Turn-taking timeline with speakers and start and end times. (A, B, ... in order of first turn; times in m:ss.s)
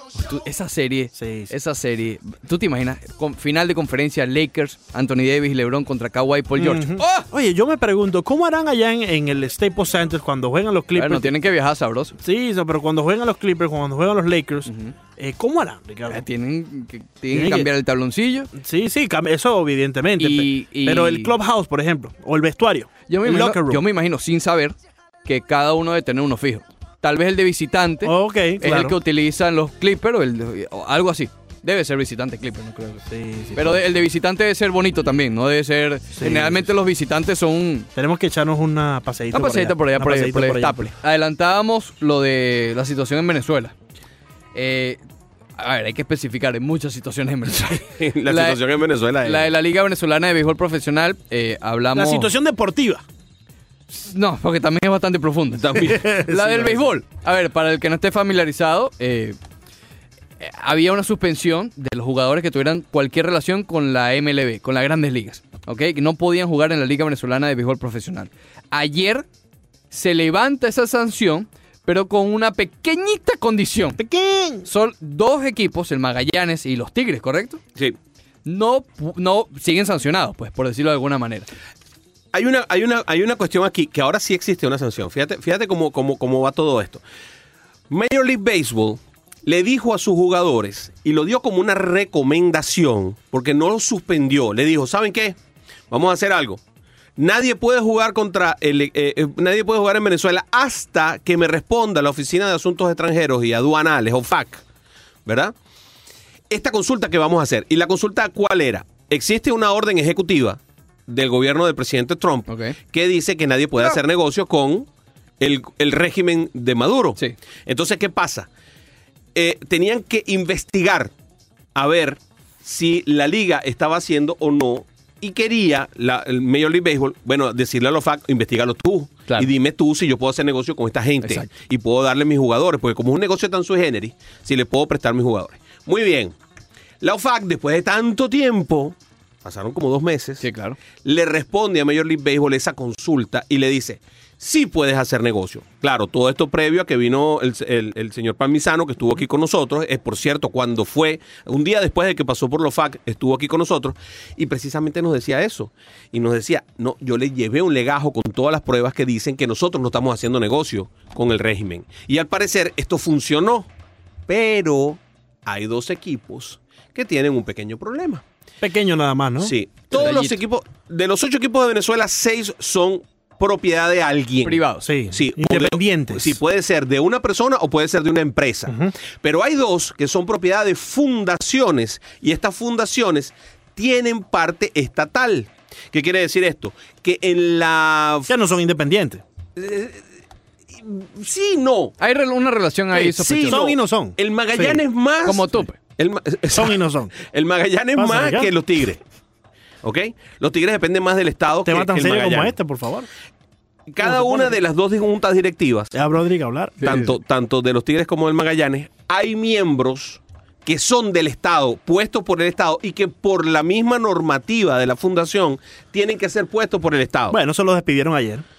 0:00.2-0:07.3 A
0:01.2-0:01.5 B
0:06.6-0:11.3 B
0:11.0-0:12.2 A
0:12.2-0:16.2 B
0:14.7-0:14.9 A
0:16.1-0:18.5 A
0:17.3-0:17.7 B
0:18.6-0:23.8 B
0:20.2-0:21.4 A
0:23.1-0:24.7 A
0:25.2-0:33.0 A
0:28.0-0:29.0 B
0:33.1-0:33.8 B
0:33.6-0:37.9 A
0:36.2-0:36.7 B
0:38.0-0:40.9 B
0:39.3-0:43.8 A
0:44.6-0:45.0 A
0:45.6-0:48.6 A
0:48.0-0:49.5 C
0:49.2-0:52.3 A
0:52.0-0:53.0 B
0:53.9-0:59.4 A
0:55.6-0:56.1 C
0:55.9-0:56.9 B
1:00.4-1:09.3 A
1:09.9-1:14.0 A
1:14.0-1:14.7 B
1:14.6-1:17.6 A
1:18.4-1:21.5 A
1:22.3-1:27.0 C
1:27.9-1:35.4 C
1:35.9-1:36.6 C
1:37.2-1:44.6 C
1:45.3-1:45.5 C
1:46.5-1:54.9 C
1:52.5-1:52.8 A
1:55.4-1:58.5 C
1:59.4-2:01.1 C
2:01.8-2:16.3 C
2:11.2-2:11.5 A
2:17.0-2:20.4 C
2:20.4-2:20.8 A
2:21.0-2:43.7 C
2:44.3-2:48.2 C
2:48.6-2:49.5 B
2:49.4-3:08.3 C
2:49.9-2:50.4 A
2:54.4-2:54.9 A
2:54.8-2:56.4 B
3:08.3-3:09.2 B
3:09.6-3:10.0 C
3:10.8-3:12.0 C
3:12.0-3:13.6 A
3:13.0-3:19.0 C
3:13.4-3:14.8 B
3:15.2-3:15.8 A
3:16.5-3:17.1 B
3:18.0-3:18.5 B
3:19.8-3:22.5 C
3:21.7-3:23.1 B
3:23.9-3:25.9 C
3:24.0-3:24.5 B
3:25.9-3:26.9 B
3:26.8-3:27.1 A
3:26.8-3:37.4 C
3:37.3-3:38.4 B